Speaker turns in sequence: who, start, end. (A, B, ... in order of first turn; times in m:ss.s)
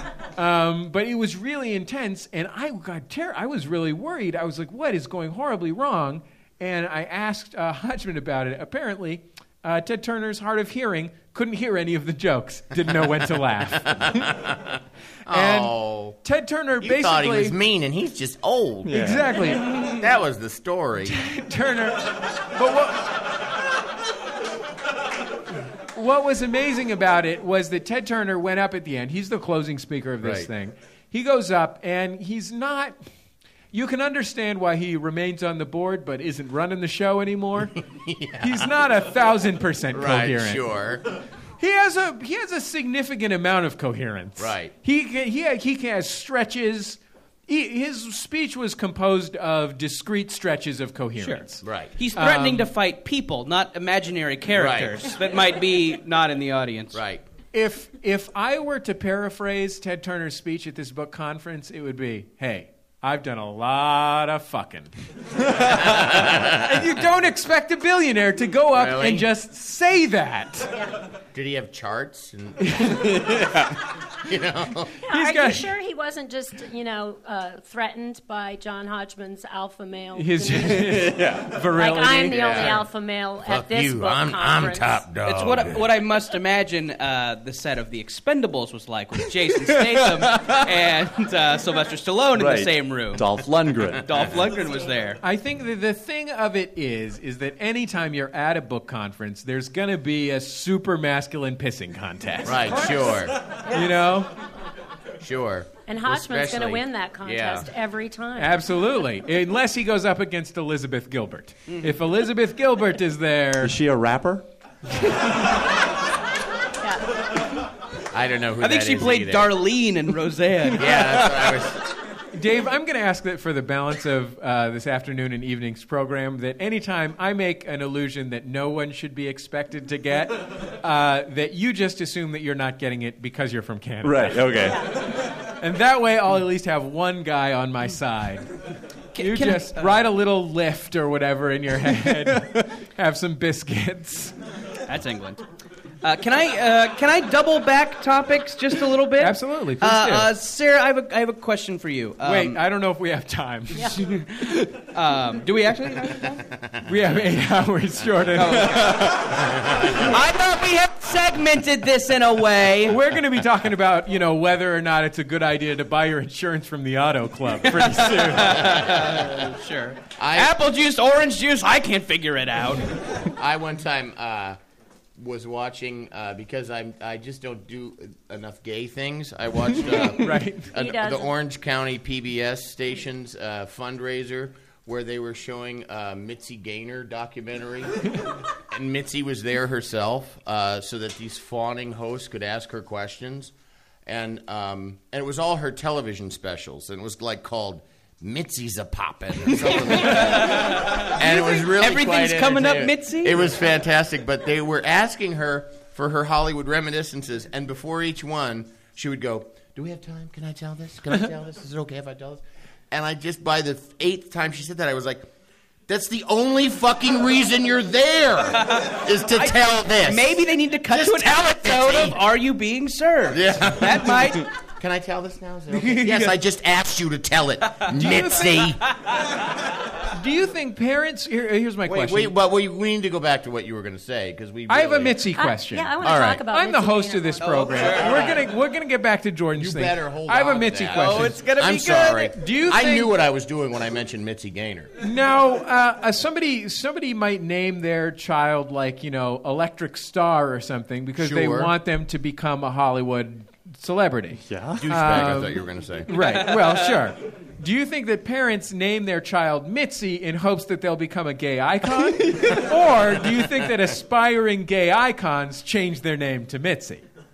0:00.4-0:14.1 A
0:13.7-0:16.2 B
0:15.3-0:17.6 A
0:16.8-0:21.2 B
0:18.8-0:19.3 C
0:18.9-0:19.7 A
0:21.1-0:23.2 A
0:25.9-0:33.0 A
0:30.2-0:30.5 B
0:33.7-0:37.8 A
0:37.9-0:38.7 B
0:38.4-0:40.6 A
0:39.9-0:41.0 B
0:41.6-0:51.6 A
0:44.4-0:44.7 B
0:51.2-0:57.0 D
0:51.6-0:51.9 B
0:52.1-0:52.7 A
0:54.5-0:55.0 B
0:56.9-0:57.2 B
0:57.5-1:04.9 A
1:05.6-1:10.7 A
1:05.7-1:06.8 B
1:08.7-1:09.3 B
1:11.3-1:13.1 B
1:12.6-1:13.1 A
1:13.2-1:13.7 C
1:14.2-1:15.0 B
1:15.0-1:21.0 E
1:15.1-1:15.7 A
1:20.2-1:22.8 A
1:20.9-1:21.6 C
1:21.8-1:25.0 E
1:22.3-1:22.8 B
1:23.4-1:25.8 B
1:25.2-1:33.3 D
1:32.4-1:34.1 C
1:33.9-1:35.2 D
1:35.2-1:44.3 A
1:42.4-1:43.4 B
1:43.6-1:43.9 E
1:45.2-1:47.7 B
1:45.9-1:48.6 E
1:48.4-1:53.8 A
1:53.6-1:54.5 C
1:56.8-1:57.1 E
1:58.1-1:59.5 B
1:58.6-2:01.4 D
2:00.7-2:01.8 B
2:02.3-2:18.5 A
2:14.0-2:15.0 C
2:14.7-2:15.0 E
2:19.2-2:20.0 D
2:19.2-2:24.4 A
2:24.9-2:25.4 D
2:26.0-2:32.6 D
2:29.2-2:30.3 A
2:32.2-2:34.8 A
2:34.0-2:34.3 D
2:34.8-2:36.4 D
2:36.8-2:39.0 A
2:38.4-2:43.0 D
2:42.9-2:48.7 A
2:47.6-2:53.3 D
2:49.0-2:49.3 B
2:50.2-2:50.5 B
2:53.4-2:54.6 B
2:55.2-3:08.1 B
3:00.2-3:00.7 A
3:00.7-3:01.3 E
3:08.7-3:13.5 B
3:14.1-3:35.3 B
3:19.9-3:23.4 D
3:35.9-3:42.2 B
3:38.6-3:44.5 D
3:43.3-3:48.9 B
3:45.8-3:46.3 D
3:48.0-3:48.7 A
3:50.0-3:52.4 A
3:51.9-3:55.2 B
3:54.7-4:01.4 A
3:55.4-3:58.0 E
3:56.0-3:56.4 B
3:57.4-3:58.4 D
3:58.0-3:58.4 B
3:59.6-4:04.9 B
4:00.9-4:02.3 D
4:02.3-4:03.1 A
4:05.0-4:27.0 A
4:11.2-4:11.7 B
4:14.5-4:15.2 C
4:14.8-4:16.1 B
4:16.2-4:16.8 D
4:22.3-4:22.6 C